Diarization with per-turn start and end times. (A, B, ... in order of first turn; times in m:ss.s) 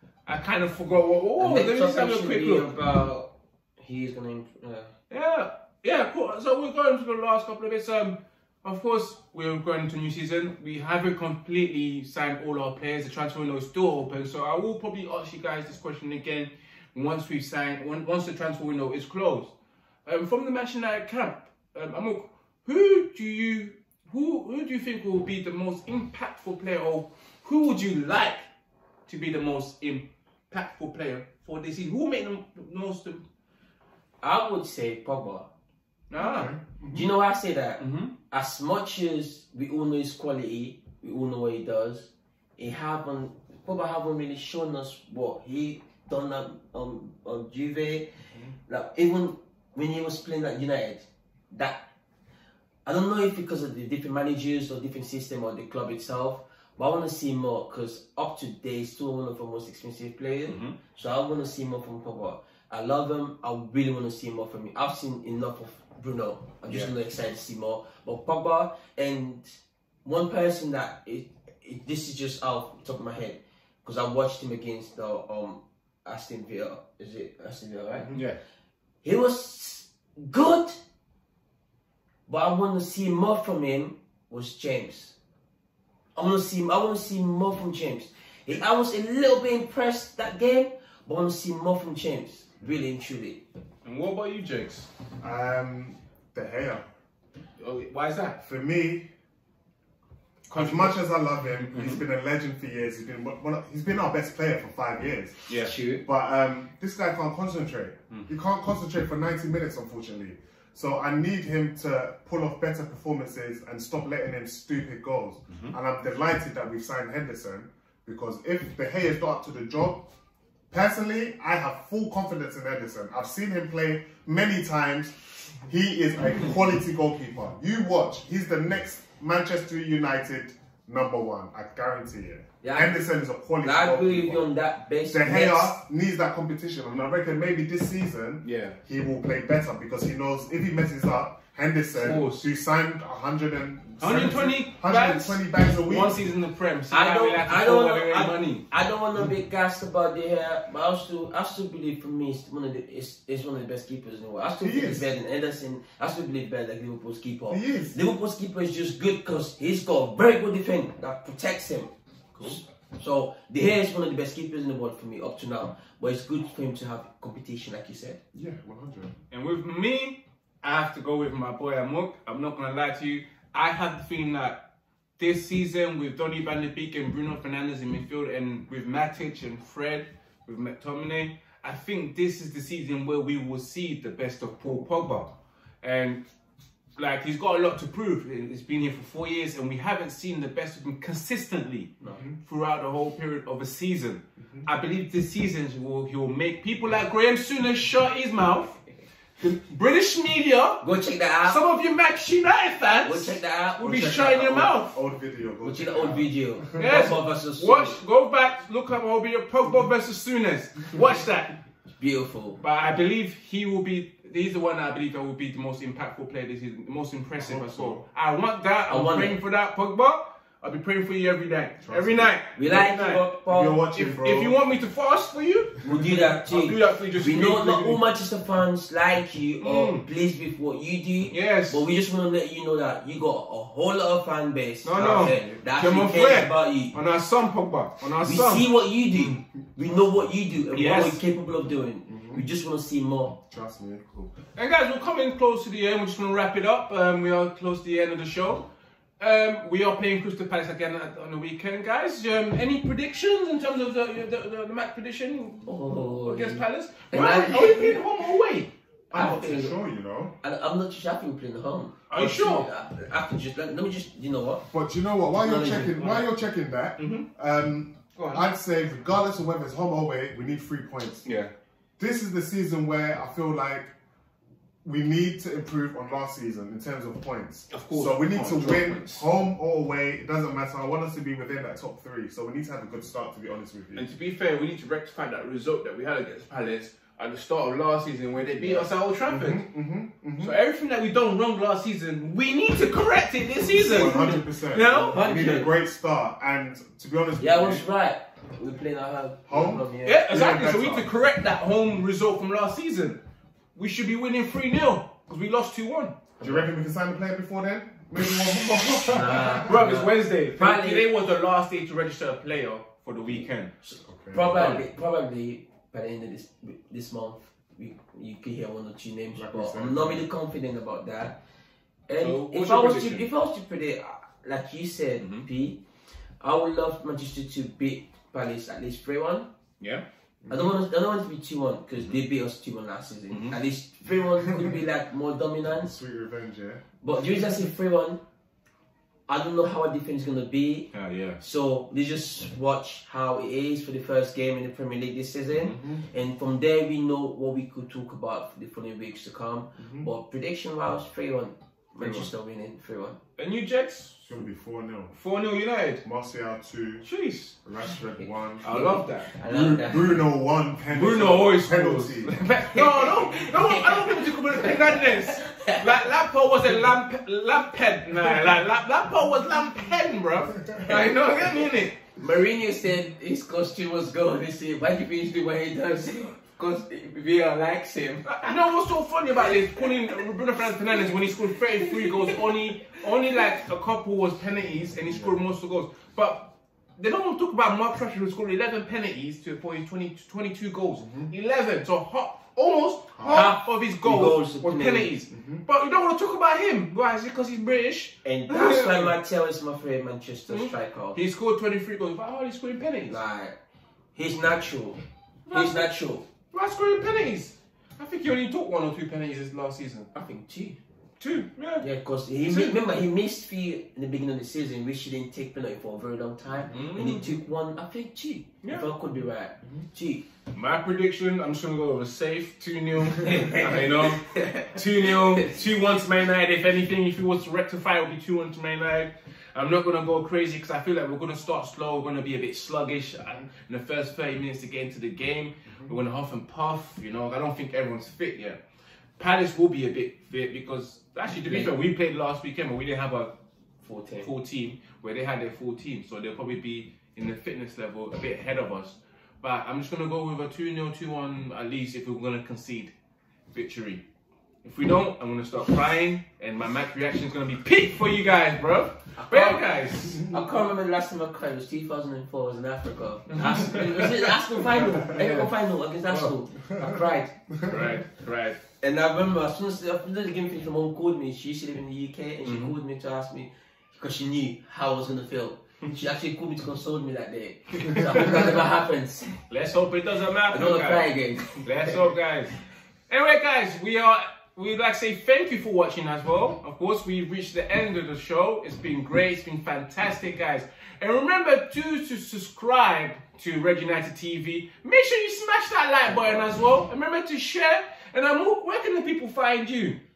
0:00.2-0:02.7 A
0:01.4-0:04.9 B
0:05.1-0:19.5 A
0:20.0-0:28.4 A
0:29.1-0:33.2 A
0:34.2-0:35.5 B
0:36.1-0:36.5 A
0:36.2-0:37.1 C
0:36.9-0:48.1 B
0:37.8-0:38.1 A
0:48.7-0:51.8 B
0:52.8-1:18.1 B
1:00.5-1:00.8 A
1:06.7-1:06.9 A
1:17.9-1:18.2 C
1:19.0-1:20.8 B
1:22.3-1:25.1 B
1:26.2-1:33.4 B
1:33.8-1:34.9 A
1:35.2-1:36.8 C
1:37.6-1:38.4 A
1:38.4-1:39.1 C
1:40.5-1:41.0 A
1:40.5-2:00.1 C
1:41.7-1:42.0 A
1:45.5-1:45.9 A
1:45.7-1:46.0 B
2:00.7-2:14.5 C
2:12.6-2:13.0 B
2:13.6-2:15.7 B
2:15.1-2:26.2 C
2:18.4-2:18.8 A
2:22.0-2:22.4 A
2:24.0-2:28.6 A
2:26.9-2:48.2 B
2:34.6-2:35.1 C
2:37.5-2:38.0 C
2:42.3-2:42.6 A
2:48.3-2:49.1 C
2:49.3-2:54.6 A
2:55.2-3:06.2 A
3:07.0-3:11.9 A
3:12.4-3:18.8 A
3:14.4-3:14.7 C
3:19.4-3:20.8 A
3:20.8-3:21.6 B
3:21.4-3:25.0 A
3:23.0-3:24.8 B
3:24.9-3:27.0 C
3:25.6-3:28.0 B
3:26.8-3:31.5 A
3:32.0-3:32.6 B
3:32.6-3:43.2 A
3:37.4-3:38.0 C
3:38.9-3:39.4 B
3:41.8-3:42.3 C
3:42.6-3:43.8 B
3:43.5-3:44.6 C
3:43.9-3:48.0 A
3:45.8-3:56.9 B
3:49.6-3:50.0 A
3:51.3-3:51.8 A
3:54.8-3:59.4 A
3:55.0-3:55.6 C
3:58.2-4:03.3 B
3:59.8-4:00.1 C
4:00.7-4:01.2 A
4:02.1-4:02.4 C
4:03.4-4:04.3 C
4:04.5-4:08.6 A
4:09.2-4:18.7 A
4:15.6-4:18.0 B
4:19.1-4:20.3 C
4:19.1-4:19.7 B
4:20.4-4:24.6 B
4:22.1-4:22.7 A
4:24.7-4:31.3 C
4:25.4-4:26.2 B
4:27.0-4:27.2 A
4:28.2-4:28.4 A
4:31.2-4:31.5 A
4:32.0-4:33.9 C
4:34.8-4:44.1 C
4:37.7-4:39.2 A
4:44.0-4:49.6 A
4:48.6-4:48.8 B
4:49.2-4:50.6 C
4:50.4-4:55.2 A
4:53.7-4:54.4 B
4:53.8-4:57.8 C
4:55.1-4:55.7 B
4:57.4-5:00.2 B
4:59.5-5:01.1 C
5:00.0-5:03.2 A
5:03.7-5:06.2 A
5:06.4-5:06.7 B
5:06.4-5:09.8 C
5:08.2-5:13.7 A
5:09.1-5:11.1 B
5:13.8-5:21.4 B
5:14.0-5:14.7 C
5:14.5-5:14.8 A
5:19.4-5:20.3 C
5:22.1-5:25.8 B
5:22.2-5:23.3 A
5:25.2-5:25.5 A
5:26.4-5:29.5 B
5:30.4-5:30.7 C
5:30.5-5:35.9 B
5:33.3-5:33.6 A
5:34.4-5:34.8 C
5:35.8-5:36.8 C
5:37.0-5:38.2 B
5:39.3-5:40.9 B
5:40.9-5:41.4 A
5:41.4-5:53.2 B
5:49.8-5:50.1 C
5:52.0-5:52.2 A
5:53.4-5:54.4 A
5:54.3-5:55.1 C
5:55.1-5:56.0 A
5:56.0-5:57.1 C
5:57.0-5:57.5 A
5:57.6-5:58.6 C
5:58.6-5:59.3 A
5:58.6-6:00.2 B
5:59.4-6:02.4 C
6:00.9-6:12.0 A
6:02.5-6:06.1 B
6:10.6-6:11.1 C
6:10.8-6:11.4 B
6:12.2-6:18.6 B
6:18.2-6:39.1 A
6:19.4-6:20.3 B
6:20.9-6:22.6 B
6:25.0-6:25.4 C
6:31.0-6:31.3 C
6:33.1-6:33.5 C
6:33.2-6:35.1 B
6:35.3-6:35.6 C
6:38.2-6:41.2 B
6:40.5-6:43.2 A
6:43.1-6:43.6 B
6:44.1-6:46.2 B
6:45.5-6:45.9 A
6:46.5-6:50.1 A
6:50.1-6:50.8 B
6:51.2-6:51.9 A
6:51.8-7:00.2 B
6:52.4-6:52.8 A
6:56.7-6:57.2 A
7:00.5-7:18.6 A
7:03.3-7:05.5 B
7:19.2-7:23.3 A
7:21.4-7:21.7 B
7:23.8-7:24.3 B
7:24.2-7:32.9 A
7:33.5-7:34.0 A
7:34.6-7:40.3 A
7:39.2-7:47.3 B
7:43.3-7:45.5 A
7:46.1-7:46.3 A
7:46.8-7:47.9 C
7:47.6-7:48.6 A
7:48.8-7:59.4 B
7:52.4-7:52.7 A
7:59.5-8:01.1 A
8:00.5-8:02.1 B
8:01.6-8:02.6 A
8:03.1-8:20.0 A
8:16.1-8:16.4 B